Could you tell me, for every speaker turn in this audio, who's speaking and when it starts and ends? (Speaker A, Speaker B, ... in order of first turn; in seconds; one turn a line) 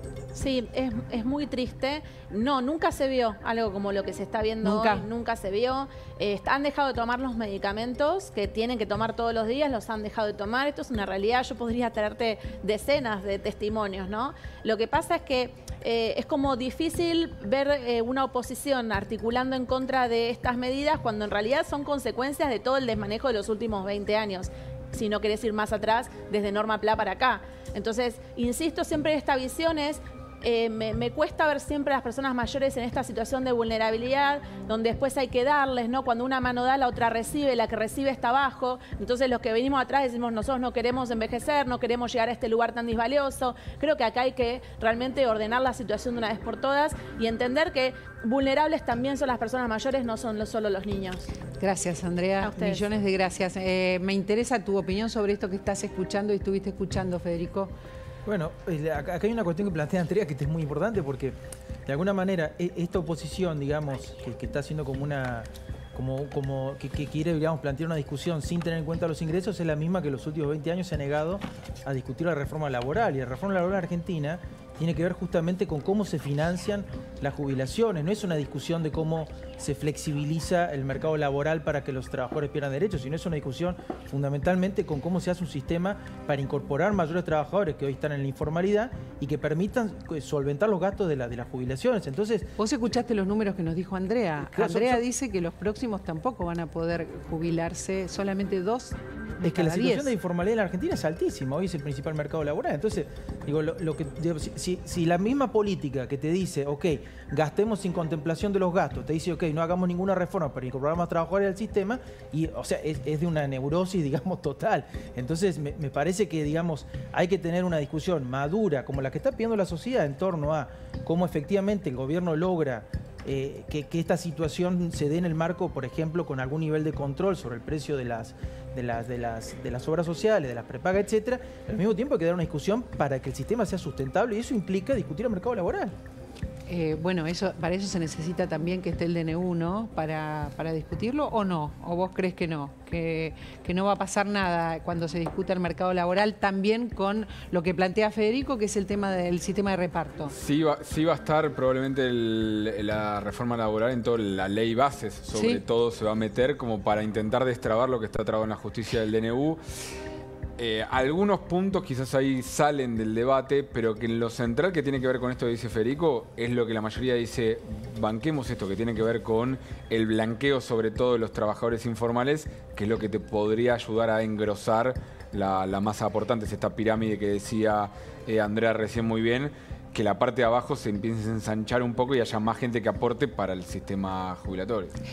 Speaker A: 0.3-51.3
Speaker B: 4.6-5.1
Speaker B: 51.6-57.7
Speaker A: 52.4-52.9
Speaker C: 58.2-61.3
Speaker C: 61.9-92.5
Speaker B: 92.6-100.1
Speaker C: 94.5-95.0
Speaker C: 99.4-135.9
Speaker B: 136.7-150.3
Speaker D: 150.3-159.6
Speaker B: 155.3-155.6
Speaker D: 160.6-184.9